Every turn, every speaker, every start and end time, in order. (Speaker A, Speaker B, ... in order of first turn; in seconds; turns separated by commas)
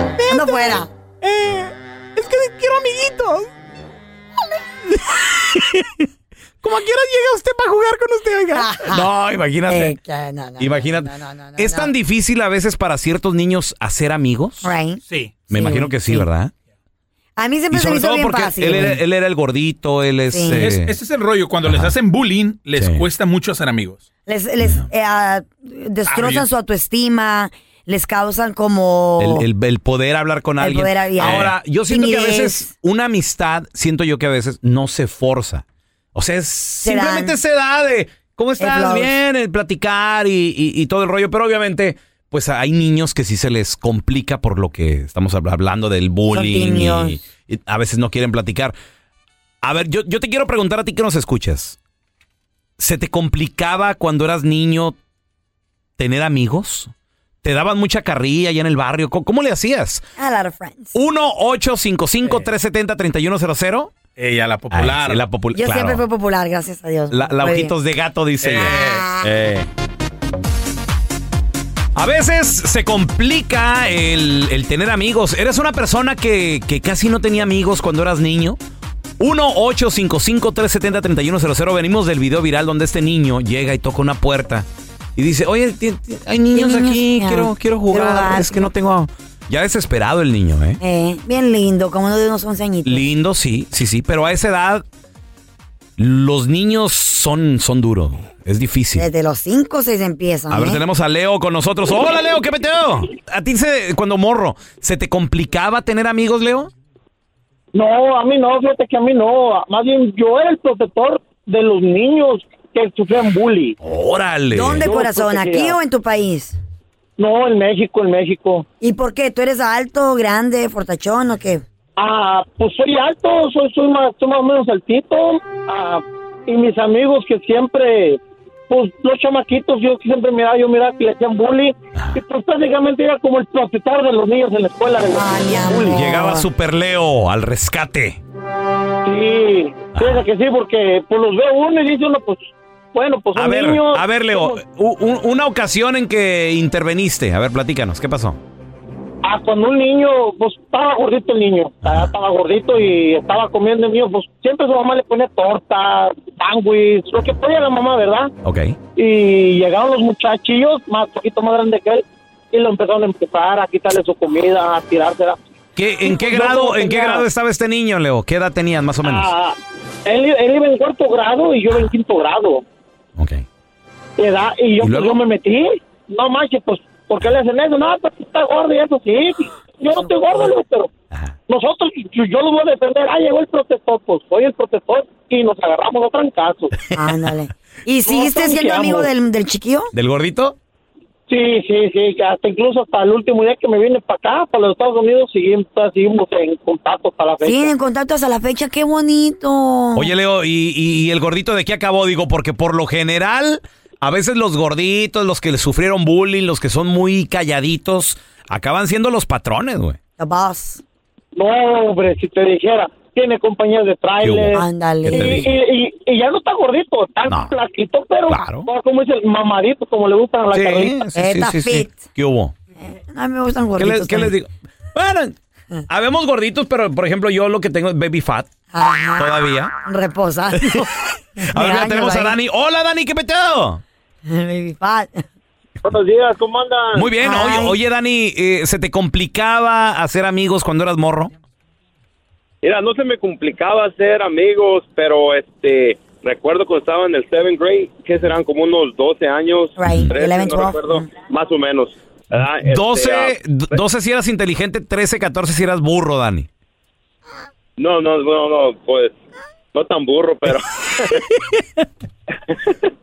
Speaker A: 0.2-3.5, Speaker B: 0.3-0.9, Speaker A: 4.9-6.0, Speaker A: 6.6-9.9, Speaker B: 8.5-9.1, Speaker B: 9.7-11.9, Speaker A: 10.6-14.7, Speaker B: 14.6-16.2, Speaker C: 15.1-15.5, Speaker A: 15.5-16.5, Speaker B: 17.4-19.0, Speaker A: 17.7-20.9, Speaker B: 20.3-20.6, Speaker C: 20.5-24.0, Speaker A: 21.7-21.9, Speaker A: 22.8-23.0, Speaker B: 24.3-29.4, Speaker C: 26.1-26.4, Speaker A: 29.2-35.6, Speaker B: 30.6-32.7, Speaker C: 31.2-31.5, Speaker A: 36.1-48.7, Speaker B: 36.8-37.4, Speaker B: 38.6-39.1, Speaker B: 46.3-47.2, Speaker A: 49.6-51.8, Speaker A: 52.8-55.0, Speaker A: 56.0-56.9, Speaker A: 57.4-60.0, Speaker B: 60.2-60.9, Speaker A: 60.9-63.9, Speaker C: 64.2-65.2, Speaker A: 64.7-66.0, Speaker B: 65.5-67.7, Speaker A: 67.1-69.6, Speaker C: 68.4-69.6, Speaker B: 68.6-69.3, Speaker A: 71.9-78.6, Speaker A: 79.2-90.8, Speaker B: 86.5-88.7, Speaker B: 90.8-93.0, Speaker A: 92.8-94.8, Speaker A: 96.0-99.1, Speaker B: 99.0-100.8, Speaker A: 100.5-106.7, Speaker D: 107.7-113.8, Speaker A: 113.8-114.9, Speaker B: 114.5-116.6, Speaker D: 114.8-115.8, Speaker D: 117.2-118.6, Speaker B: 118.8-121.6, Speaker D: 122.0-136.0, Speaker B: 135.1-136.4, Speaker A: 135.9-138.2, Speaker D: 139.0-144.6, Speaker A: 139.9-140.2, Speaker A: 143.3-148.4, Speaker D: 149.2-158.3, Speaker A: 151.8-152.1, Speaker A: 158.4-158.8, Speaker D: 158.9-165.4, Speaker A: 165.8-169.3, Speaker D: 166.0-167.2, Speaker D: 169.0-172.6, Speaker A: 173.2-173.4, Speaker D: 174.2-180.9, Speaker A: 174.8-175.2, Speaker D: 181.5-186.7, Speaker B: 186.9-189.9, Speaker D: 188.0-189.1, Speaker A: 189.9-190.6, Speaker D: 191.3-197.7, Speaker B: 197.4-200.1, Speaker A: 199.9-210.0, Speaker B: 210.2-210.8, Speaker D: 211.3-220.9, Speaker A: 214.2-215.5, Speaker B: 214.5-215.4, Speaker A: 217.3-217.5, Speaker A: 218.3-218.7, Speaker A: 220.5-222.5, Speaker B: 221.1-222.0, Speaker B: 222.8-224.3, Speaker A: 223.8-225.3, Speaker A: 225.9-228.5, Speaker B: 228.7-229.3, Speaker A: 229.2-229.7, Speaker B: 229.8-230.9, Speaker A: 230.6-233.8, Speaker B: 231.4-232.3, Speaker B: 234.2-235.2, Speaker E: 235.8-237.1, Speaker A: 236.9-241.3, Speaker B: 237.2-237.8, Speaker E: 242.6-253.3, Speaker B: 249.8-251.1, Speaker A: 252.7-256.5, Speaker E: 257.8-259.1, Speaker E: 259.7-261.2, Speaker E: 262.5-262.8